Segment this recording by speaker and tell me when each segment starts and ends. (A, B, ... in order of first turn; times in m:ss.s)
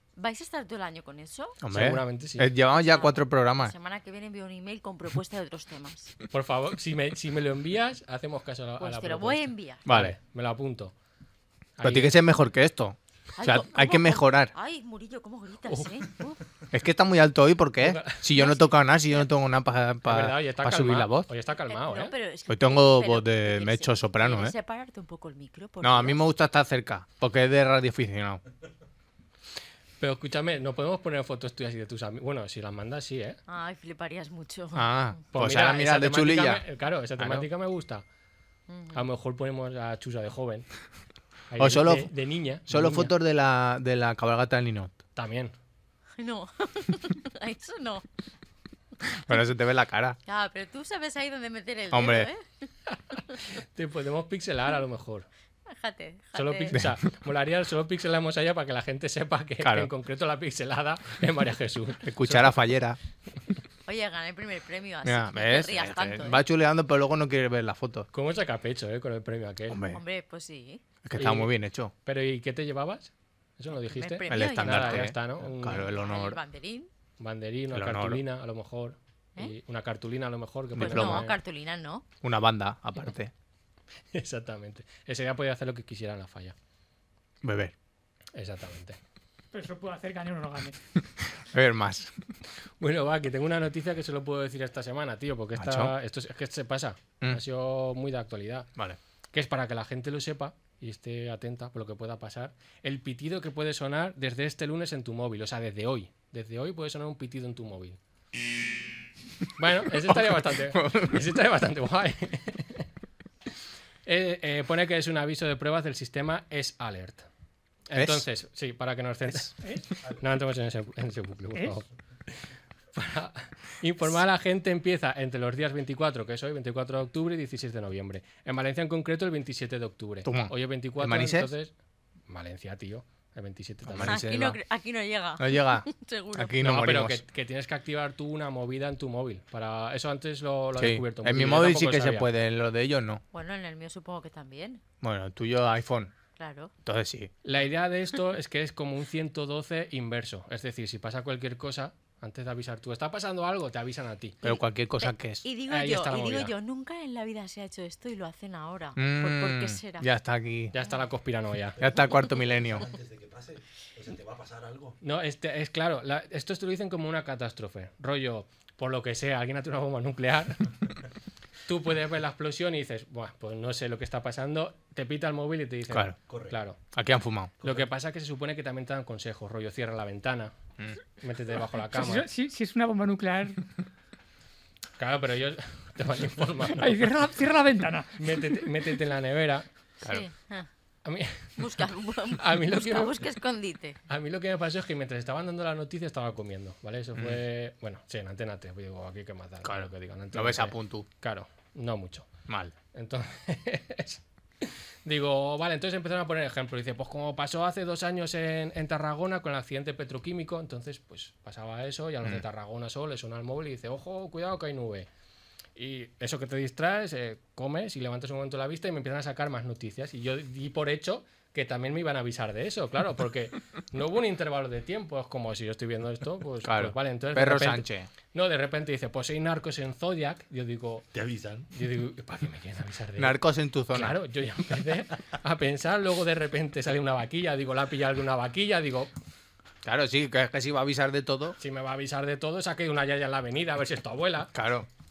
0:00.2-0:01.6 A
0:01.6-0:03.7 B
0:01.7-0:02.5 C
0:02.7-0:06.1 A
0:06.3-0:10.9 C
0:08.8-0:09.8 A
0:09.9-0:10.2 B
0:11.8-0:12.2 C
0:11.8-0:14.5 B
0:13.4-0:16.4 A
0:16.7-0:21.3 B
0:17.8-0:18.4 C
0:20.0-0:22.2 C
0:21.7-0:26.2 A
0:22.5-0:24.5 B
0:25.8-0:28.4 B
0:30.0-0:33.4 C
0:33.5-0:35.2 A
0:34.7-0:36.6 B
0:35.3-0:38.0 C
0:37.2-0:37.4 B
0:38.7-0:39.0 A
0:38.9-0:40.7 C
0:41.5-0:43.1 C
0:41.6-0:42.1 B
0:42.7-0:45.0 B
0:45.2-0:45.5 C
0:46.2-0:48.0 A
0:49.1-0:50.2 B
0:50.3-0:52.4 A
0:51.9-0:52.3 B
0:53.5-0:55.3 C
0:55.7-0:56.8 A
0:56.3-1:02.6 C
0:59.6-0:59.9 B
1:02.0-1:03.0 B
1:03.9-1:06.4 A
1:05.0-1:08.1 B
1:08.1-1:09.8 C
1:09.7-1:10.0 B
1:09.9-1:10.8 A
1:11.0-1:11.9 B
1:11.2-1:11.5 C
1:12.0-1:15.9 C
1:13.9-1:15.1 A
1:14.3-1:16.4 B
1:15.9-1:16.9 A
1:17.2-1:21.4 C
1:17.7-1:18.2 B
1:20.7-1:21.3 B
1:20.8-1:22.1 A
1:22.2-1:23.3 B
1:24.1-1:26.6 C
1:27.4-1:27.7 B
1:28.4-1:29.0 C
1:29.5-1:30.8 D
1:31.2-1:32.1 B
1:32.8-1:38.7 C
1:35.6-1:35.9 B
1:39.3-1:48.0 C
1:49.6-1:52.8 C
1:50.1-1:51.2 B
1:54.1-1:57.3 C
1:57.9-2:01.9 C
1:58.0-1:58.2 B
2:01.5-2:01.7 D
2:02.9-2:11.7 C
2:10.2-2:11.5 B
2:12.3-2:14.2 C
2:13.9-2:14.6 B
2:14.1-2:16.6 A
2:15.4-2:17.2 B
2:16.6-2:22.3 C
2:20.8-2:23.2 B
2:23.3-2:24.8 A
2:25.0-2:26.1 B
2:26.4-2:26.7 A
2:26.8-2:27.3 B
2:27.4-2:34.5 C
2:34.4-2:35.4 B
2:35.0-2:40.1 A
2:35.7-2:36.5 C
2:39.0-2:40.8 B
2:40.7-2:41.8 C
2:41.8-2:45.0 E
2:41.8-2:42.9 B
2:45.0-2:50.9 C
2:51.7-2:56.8 C
2:55.9-2:56.2 B
2:56.3-2:56.6 E
2:56.9-2:57.5 B
2:57.6-3:00.5 C
3:01.2-3:02.3 C
3:01.9-3:03.6 D
3:05.0-3:07.1 C
3:06.8-3:08.7 D
3:08.2-3:09.7 C
3:10.0-3:10.7 A
3:11.0-3:13.1 C
3:11.6-3:14.0 A
3:14.1-3:22.3 C
3:19.6-3:21.1 B
3:22.5-3:22.7 B
3:22.9-3:35.1 C
3:35.8-3:51.1 C
3:46.6-3:48.1 B
3:51.1-3:51.7 E
3:51.7-3:53.4 C
3:53.2-3:54.2 B
3:53.9-3:59.1 C
3:59.8-4:01.6 B
4:01.6-4:04.5 C
4:04.6-4:04.9 B